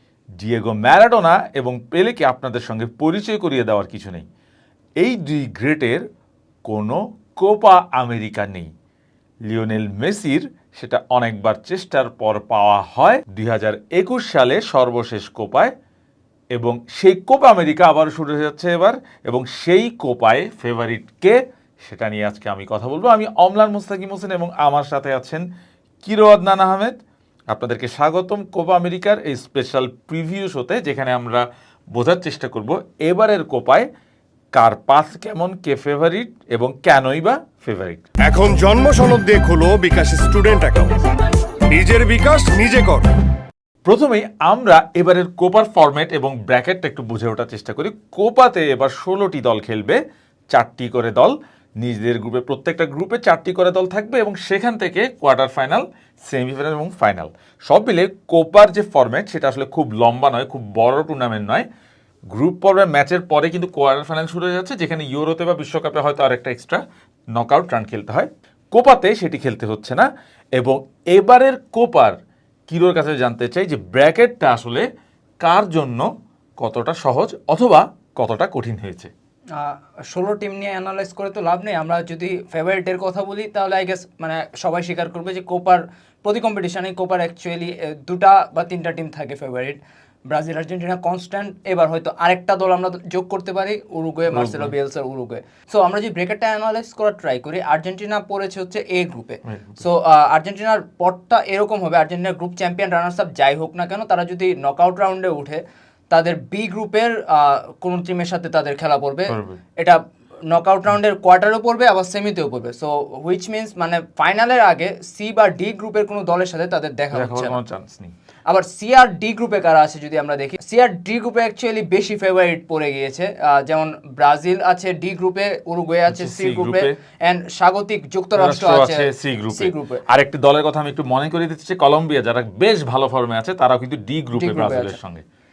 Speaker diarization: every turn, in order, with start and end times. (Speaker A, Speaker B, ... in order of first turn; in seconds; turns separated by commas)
Speaker A: 0.4-4.2, Speaker A: 5.0-6.0, Speaker A: 6.7-8.7, Speaker A: 9.5-15.7, Speaker A: 16.6-25.4, Speaker A: 26.0-27.0, Speaker A: 27.5-33.9, Speaker A: 34.5-38.1, Speaker B: 38.3-40.1, Speaker B: 41.7-43.0, Speaker A: 43.9-50.0, Speaker A: 50.5-61.7, Speaker A: 62.3-66.8, Speaker A: 67.3-70.1, Speaker A: 70.6-72.2, Speaker A: 72.7-74.9, Speaker A: 75.4-79.1, Speaker C: 79.5-89.8, Speaker C: 90.3-117.6, Speaker A: 94.3-94.8, Speaker A: 99.5-99.8, Speaker A: 109.3-109.6, Speaker A: 117.1-118.1, Speaker C: 118.5-130.0, Speaker A: 126.1-127.0, Speaker A: 128.4-135.2, Speaker C: 134.4-135.0